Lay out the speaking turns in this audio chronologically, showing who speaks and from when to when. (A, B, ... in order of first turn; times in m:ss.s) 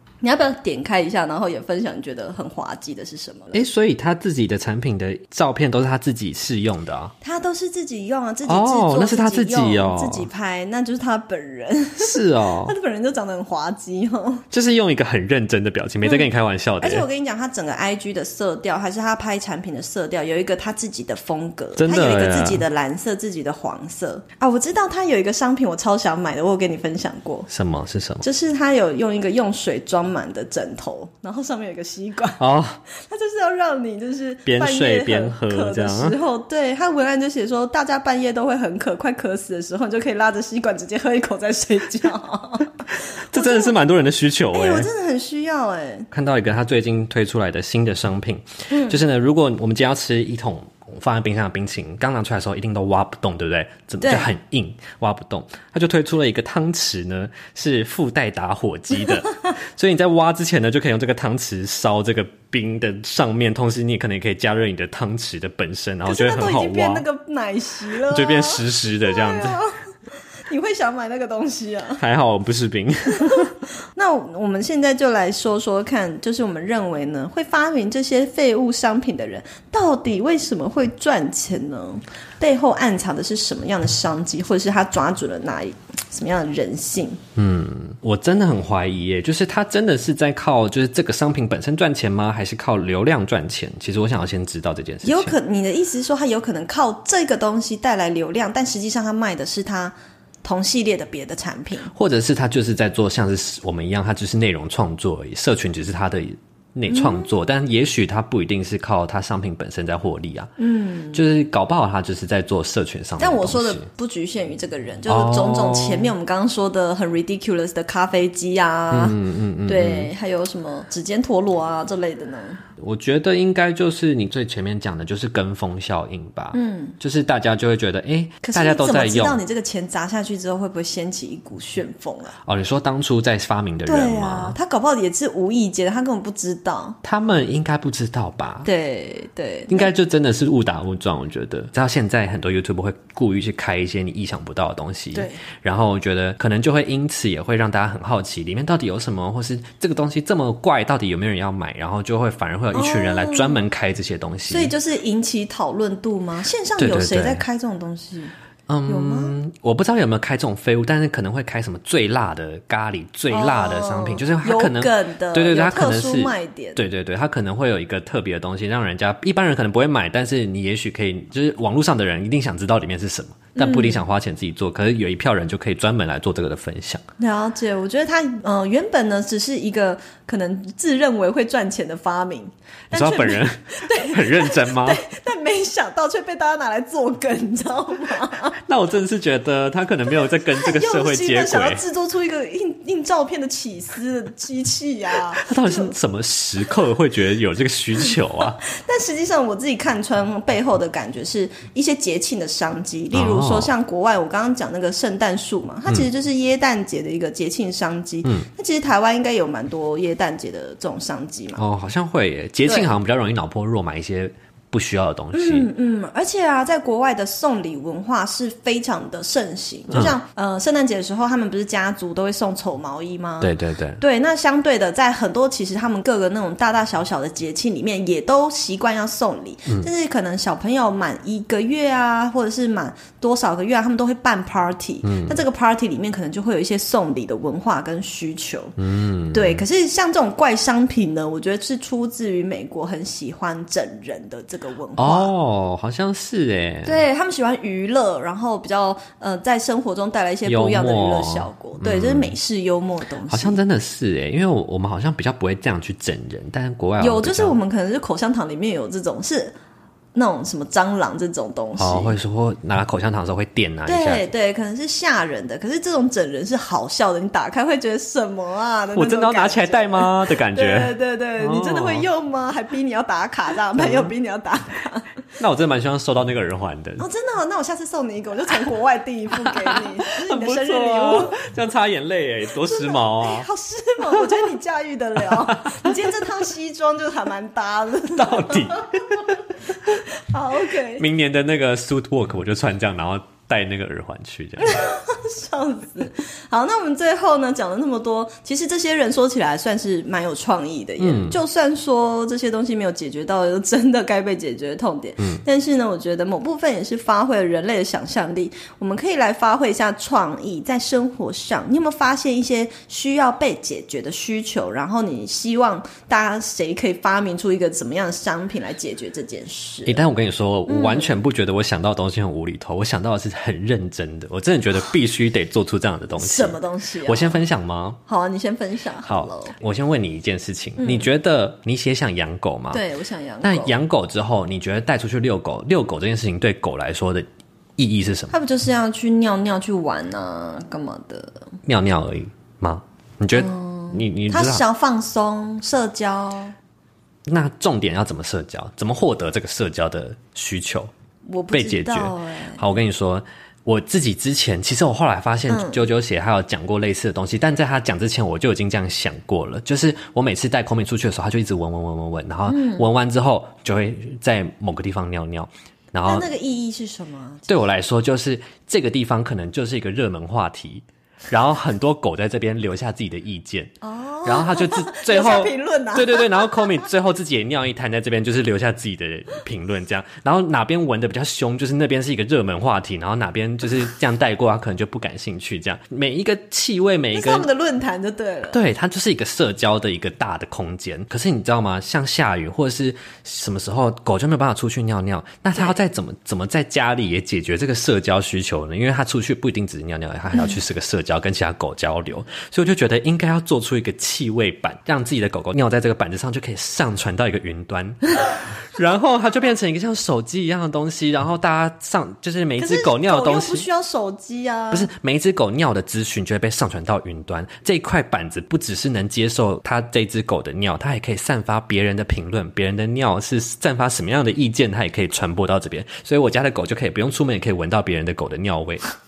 0:00.2-0:03.6 A
0:03.5-0:07.1 B
0:07.2-0:14.4 A
0:08.4-0:10.3 B
0:12.0-0:12.7 B
0:14.5-0:17.0 B
0:16.0-0:16.3 A
0:16.8-0:27.5 A
0:21.8-0:22.6 B
0:27.5-0:28.2 B
0:28.2-0:43.8 A
0:32.4-0:32.8 B
0:34.4-0:36.2 B
0:43.3-0:44.9 B
0:44.5-0:46.1 A
0:46.1-1:07.0 B
0:48.7-0:49.0 A
0:54.0-0:54.3 A
1:06.0-1:09.8 A
1:08.1-1:09.6 B
1:10.5-1:12.0 A
1:12.0-1:13.5 B
1:13.2-1:27.2 A
1:27.4-1:35.3 B
1:35.0-1:41.9 A
1:41.9-1:50.5 B
1:46.9-1:47.3 A
1:50.6-1:51.2 A
1:51.1-1:53.8 B
1:53.2-2:02.6 A
1:55.1-1:56.1 B
1:58.9-2:00.1 B
2:02.8-2:09.4 B
2:06.5-2:07.0 A
2:08.4-2:12.4 A
2:12.4-2:14.6 B
2:13.8-2:17.0 A
2:17.0-2:18.7 B
2:18.6-2:19.9 A
2:19.7-2:34.7 B
2:25.1-2:25.4 A
2:32.7-2:33.6 A
2:34.5-2:38.3 A
2:36.8-2:37.4 B
2:38.7-2:57.0 B
2:38.9-2:39.3 A
2:43.3-2:46.8 A
2:53.5-2:54.0 A
2:57.2-3:08.6 A
3:02.9-3:05.0 B
3:08.6-3:11.8 B
3:10.1-3:15.9 A
3:15.4-3:18.6 B
3:18.6-3:31.6 A
3:23.1-3:23.7 B
3:31.6-3:35.7 B
3:32.6-3:32.9 A
3:35.3-3:58.8 A
3:39.9-3:40.1 B
3:43.4-3:44.0 B
3:55.0-3:55.4 B
3:58.8-3:59.6 B
3:59.3-4:05.3 A
4:05.0-4:07.0 B
4:06.8-4:13.6 A
4:10.4-4:12.3 B
4:13.3-4:17.6 B
4:17.0-4:19.5 A
4:20.1-4:22.2 A
4:21.8-4:24.3 B
4:23.9-4:35.1 A
4:28.9-4:32.1 B
4:33.8-4:34.1 B
4:35.4-4:37.0 B
4:37.0-4:41.4 A
4:39.4-4:43.5 B
4:42.6-4:51.0 A
4:45.2-4:46.1 B
4:48.1-4:50.0 B
4:50.9-4:54.9 B
4:54.6-5:20.0 A
5:01.0-5:01.4 B
5:19.8-5:28.0 B
5:20.7-5:21.2 A
5:26.2-5:27.4 A
5:28.1-5:29.6 A
5:29.0-5:32.8 B
5:30.8-5:31.1 A
5:32.7-5:33.8 A
5:33.4-5:37.2 B
5:37.8-5:38.3 B
5:38.3-5:41.4 A
5:41.6-5:44.6 B
5:43.3-5:46.5 A
5:47.3-5:50.9 B
5:51.2-5:52.6 A
5:51.5-6:06.3 B
5:55.5-5:55.8 A
6:02.5-6:02.8 A
6:06.1-6:07.5 A
6:07.5-6:13.7 B
6:13.8-6:16.9 A
6:14.2-6:27.5 B
6:27.1-6:28.6 A
6:28.5-6:53.7 B
6:52.6-6:54.9 A
6:54.7-7:08.8 B